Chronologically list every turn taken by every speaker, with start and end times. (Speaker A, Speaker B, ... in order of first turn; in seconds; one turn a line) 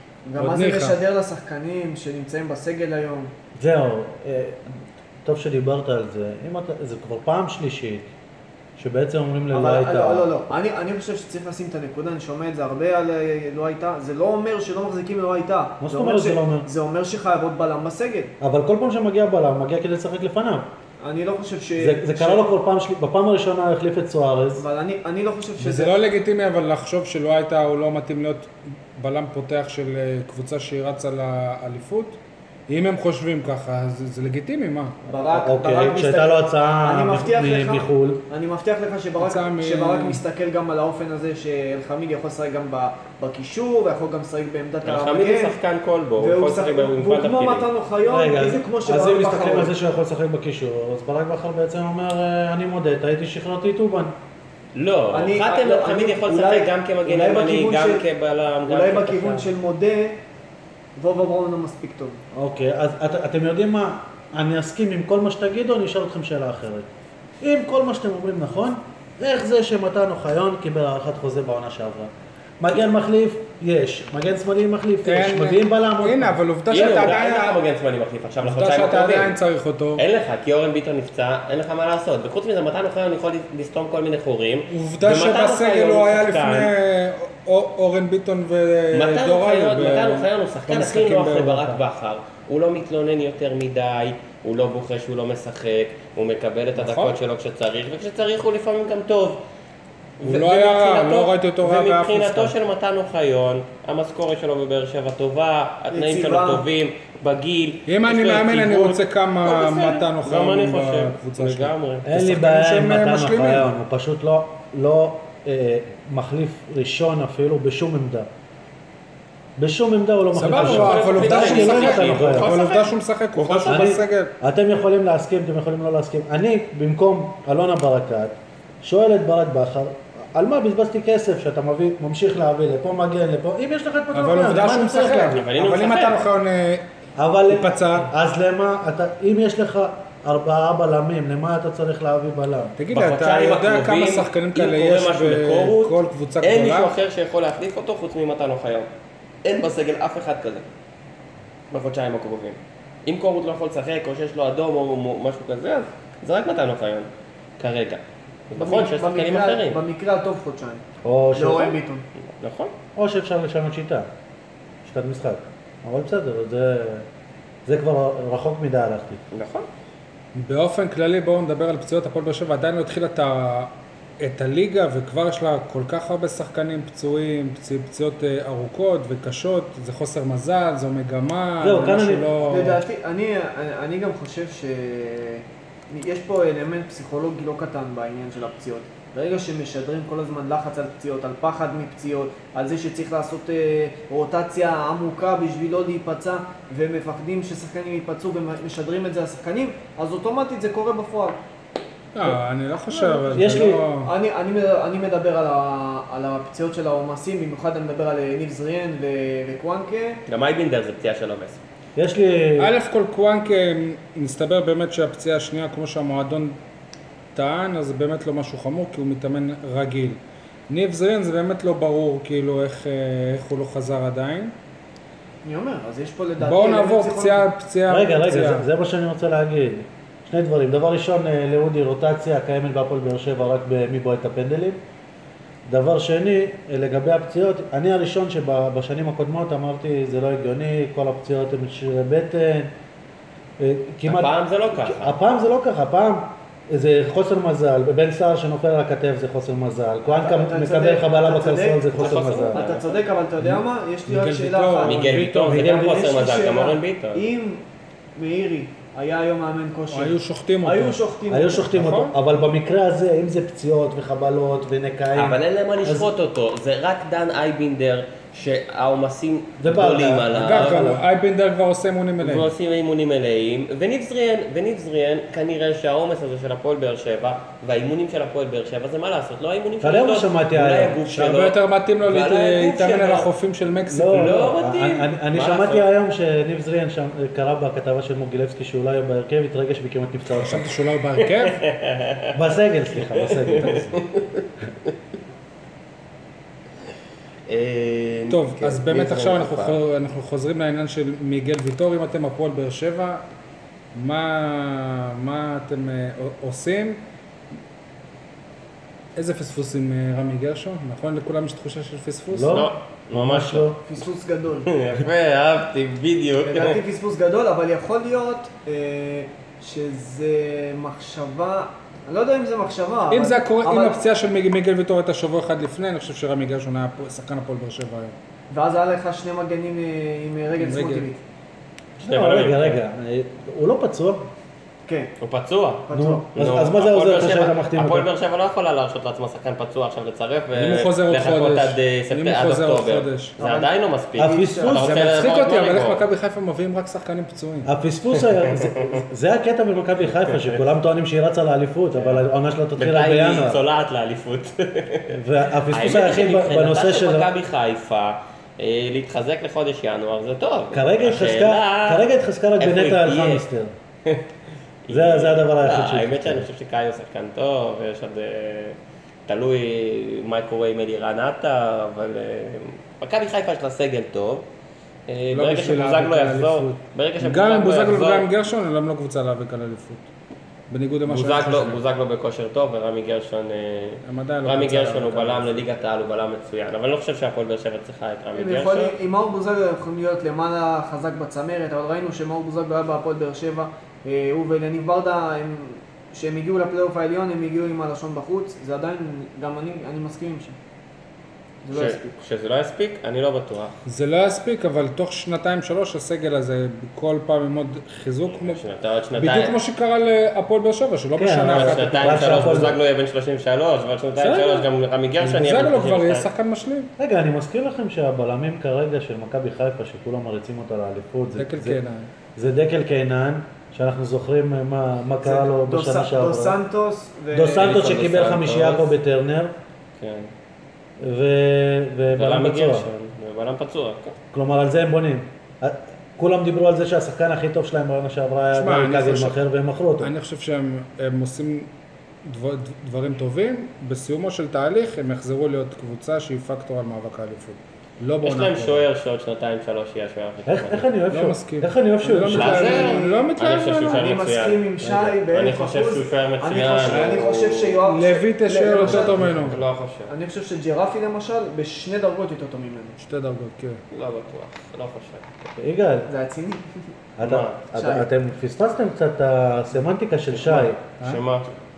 Speaker A: 0.2-3.3
Speaker B: 0.4-1.0
Speaker C: 3.6-8.1
Speaker C: 8.8-10.3
Speaker A: 9.5-18.3
Speaker C: 15.8-16.7
Speaker C: 18.4-20.7
Speaker A: 21.0-22.5
Speaker C: 21.8-24.7
Speaker A: 24.6-26.0
Speaker B: 25.6-35.0
Speaker A: 35.1-45.6
Speaker C: 35.3-38.3
Speaker B: 39.2-40.2
Speaker D: 44.8-47.7
Speaker A: 46.2-49.7
Speaker C: 48.0-54.1
Speaker D: 54.8-59.5
Speaker A: 55.1-58.1
Speaker A: 58.7-60.2
Speaker A: 61.0-62.2
Speaker C: 62.3-66.9
Speaker C: 67.4-76.4
Speaker B: 75.0-77.6
Speaker D: 76.7-79.4
Speaker B: 78.4-80.0
Speaker D: 80.0-86.7
Speaker B: 84.7-91.8
Speaker D: 88.9-99.4
Speaker B: 96.8-97.2
Speaker D: 100.2-112.1
Speaker B: 100.2-102.5
Speaker A: 105.9-106.7
Speaker B: 107.9-113.7
Speaker C: 112.0-118.3
Speaker C: 119.6-122.5
Speaker B: 120.3-124.3
Speaker D: 120.4-123.9
Speaker C: 123.7-135.4
Speaker B: 134.1-136.8
Speaker D: 135.3-136.3
Speaker C: 137.2-142.8
Speaker B: 137.5-138.1
Speaker B: 142.8-146.9
Speaker D: 142.9-148.9
Speaker D: 149.4-150.7
Speaker D: 151.7-159.8
Speaker A: 158.6-160.8
Speaker C: 161.0-161.8
Speaker A: 161.4-162.0
Speaker D: 162.2-162.7
Speaker C: 163.0-164.1
Speaker C: 164.8-167.1
Speaker C: 167.7-169.2
Speaker D: 169.3-169.7
Speaker B: 170.3-182.8
Speaker C: 181.6-182.6
Speaker A: 182.5-201.4
Speaker B: 202.2-204.1
Speaker A: 202.9-210.2
Speaker C: 203.3-203.9
Speaker D: 210.3-211.6
Speaker C: 212.0-212.8
Speaker B: 212.6-216.6
Speaker B: 217.3-224.5
Speaker A: 225.4-227.5
Speaker B: 226.4-228.7
Speaker C: 227.9-234.8
Speaker C: 235.7-242.7
Speaker C: 243.6-252.6
Speaker D: 244.1-245.2
Speaker A: 250.1-257.6
Speaker D: 251.9-253.0
Speaker B: 253.4-255.6
Speaker D: 254.8-257.2
Speaker C: 255.5-256.1
Speaker A: 258.2-261.8
Speaker B: 259.9-261.0
Speaker C: 261.3-266.1
Speaker B: 261.7-262.1
Speaker D: 265.1-271.0
Speaker C: 269.6-271.0
Speaker B: 270.4-272.5
Speaker D: 272.2-283.3
Speaker C: 279.8-281.1
Speaker B: 281.1-284.4
Speaker C: 283.9-290.7
Speaker D: 284.1-285.9
Speaker B: 290.3-291.6
Speaker D: 291.2-292.4
Speaker C: 292.3-294.0
Speaker D: 293.0-294.9
Speaker D: 297.5-299.8
Speaker B: 298.3-303.2
Speaker B: 303.9-307.0
Speaker B: 309.2-312.7
Speaker C: 312.3-313.8
Speaker D: 312.5-313.7
Speaker A: 313.9-314.7
Speaker D: 314.7-316.8
Speaker A: 316.4-324.0
Speaker B: 323.1-328.2
Speaker A: 328.5-331.2
Speaker B: 330.6-331.1
Speaker C: 332.0-334.3
Speaker D: 332.0-332.8
Speaker A: 334.9-335.1
Speaker D: 335.2-346.0
Speaker A: 335.9-336.3
Speaker C: 335.9-338.1
Speaker B: 340.5-343.4
Speaker A: 343.4-344.8
Speaker C: 344.2-345.0
Speaker B: 344.8-347.7
Speaker C: 347.6-353.6
Speaker D: 348.3-349.0
Speaker D: 350.1-350.7
Speaker D: 351.9-352.2
Speaker D: 352.8-362.0
Speaker C: 355.1-357.3
Speaker C: 360.7-363.7
Speaker D: 362.6-363.4
Speaker D: 364.9-374.5
Speaker C: 364.9-366.5
Speaker D: 375.1-378.3
Speaker B: 375.3-380.1
Speaker B: 380.7-381.8
Speaker D: 381.1-389.0
Speaker B: 384.0-385.6
Speaker A: 388.4-400.6
Speaker A: 401.6-402.1
Speaker D: 401.7-403.8
Speaker B: 403.9-408.6
Speaker D: 408.3-409.6
Speaker B: 409.2-412.6
Speaker C: 411.2-412.8
Speaker D: 411.5-416.3
Speaker C: 414.2-414.7
Speaker B: 415.2-416.9
Speaker C: 417.0-421.8
Speaker B: 421.4-422.1
Speaker C: 422.4-426.6
Speaker A: 425.2-427.8
Speaker C: 427.3-429.5
Speaker D: 427.5-428.9
Speaker D: 430.0-430.3
Speaker C: 431.0-432.9
Speaker D: 432.1-434.2
Speaker C: 434.3-440.1
Speaker B: 438.5-439.4
Speaker B: 440.0-441.7
Speaker B: 442.2-448.8
Speaker D: 448.2-450.9
Speaker C: 450.5-452.8
Speaker B: 451.1-454.2
Speaker A: 452.2-453.3
Speaker D: 452.3-457.8
Speaker A: 453.9-459.3
Speaker C: 454.8-455.2
Speaker B: 456.9-457.3
Speaker B: 457.9-459.6
Speaker C: 458.7-459.6
Speaker D: 458.9-460.1
Speaker A: 460.1-463.0
Speaker B: 463.0-463.8
Speaker D: 463.9-465.3
Speaker C: 465.6-466.1
Speaker A: 466.1-466.7
Speaker C: 467.2-470.8
Speaker D: 467.2-467.7
Speaker A: 467.7-468.1
Speaker D: 470.3-471.5